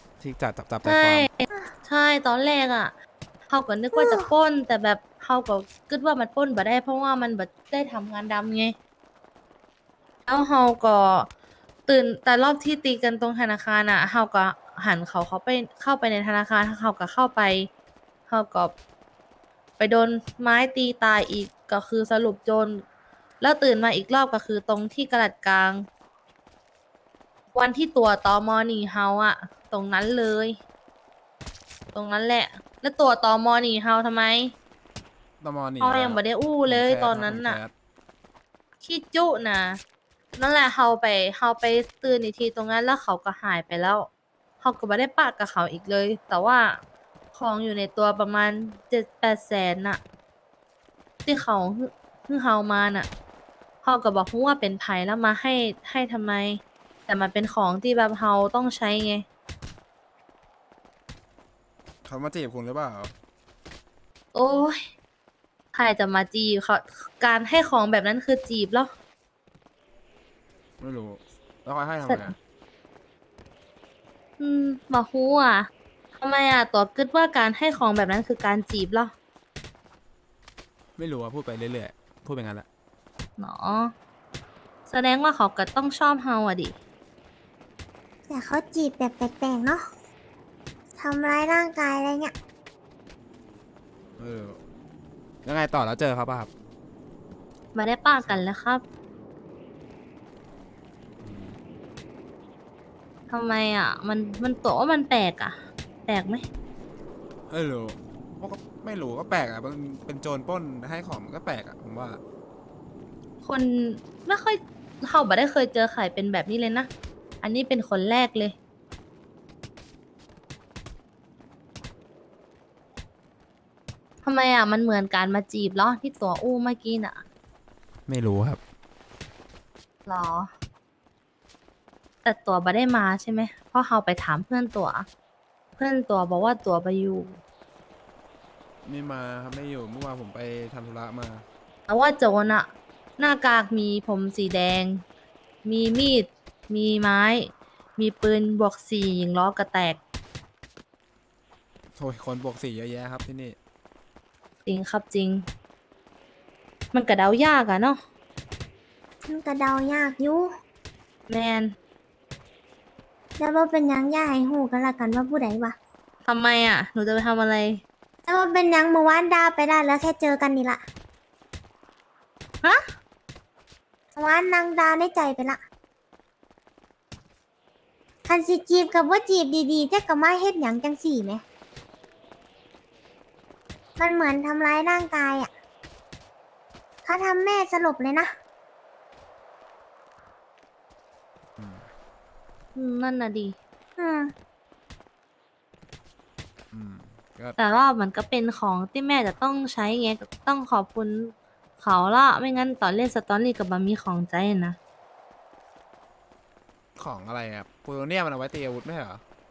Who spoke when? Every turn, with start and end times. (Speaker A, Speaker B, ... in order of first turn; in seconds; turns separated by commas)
Speaker A: 0.2-1.3, Speaker B: 0.8-2.9, Speaker B: 3.5-8.7, Speaker C: 3.9-4.3, Speaker B: 10.3-11.3, Speaker B: 11.9-17.7, Speaker B: 18.3-18.7, Speaker B: 19.8-22.8, Speaker B: 23.4-25.8, Speaker B: 27.5-30.6, Speaker B: 31.9-34.5, Speaker A: 35.4-37.7, Speaker B: 35.8-37.6, Speaker B: 38.8-39.8, Speaker B: 40.4-44.1, Speaker B: 44.6-46.7, Speaker B: 47.3-50.0, Speaker B: 51.2-53.1, Speaker B: 53.8-59.2, Speaker A: 62.1-63.1, Speaker B: 64.3-64.8, Speaker B: 65.7-68.9, Speaker A: 70.8-72.4, Speaker B: 72.1-72.3, Speaker B: 74.4-75.7, Speaker B: 76.2-79.1, Speaker A: 81.0-82.7, Speaker B: 83.4-83.9, Speaker B: 84.9-86.8, Speaker C: 88.3-89.8, Speaker C: 91.0-92.3, Speaker A: 94.2-94.6, Speaker A: 95.5-96.5, Speaker B: 97.7-98.8, Speaker A: 101.2-101.6, Speaker B: 103.3-106.4, Speaker A: 107.5-112.2, Speaker B: 113.4-116.9, Speaker B: 117.4-118.6, Speaker B: 124.2-127.2, Speaker A: 128.1-128.6, Speaker B: 130.1-130.5, Speaker B: 132.2-135.1, Speaker B: 135.8-137.4, Speaker A: 138.8-141.4, Speaker B: 141.9-145.0, Speaker B: 145.7-150.0, Speaker A: 152.0-153.6, Speaker B: 154.7-155.4, Speaker B: 156.9-158.0, Speaker C: 159.3-160.5, Speaker B: 161.3-161.7, Speaker C: 163.4-165.7, Speaker B: 166.3-167.8, Speaker C: 168.3-170.8, Speaker C: 174.2-175.6, Speaker C: 178.3-181.4, Speaker C: 184.0-185.5, Speaker C: 187.0-188.3, Speaker A: 191.6-191.8, Speaker B: 192.8-193.6, Speaker C: 194.0-194.3, Speaker A: 196.7-197.6, Speaker B: 197.6-204.8, Speaker A: 207.0-209.2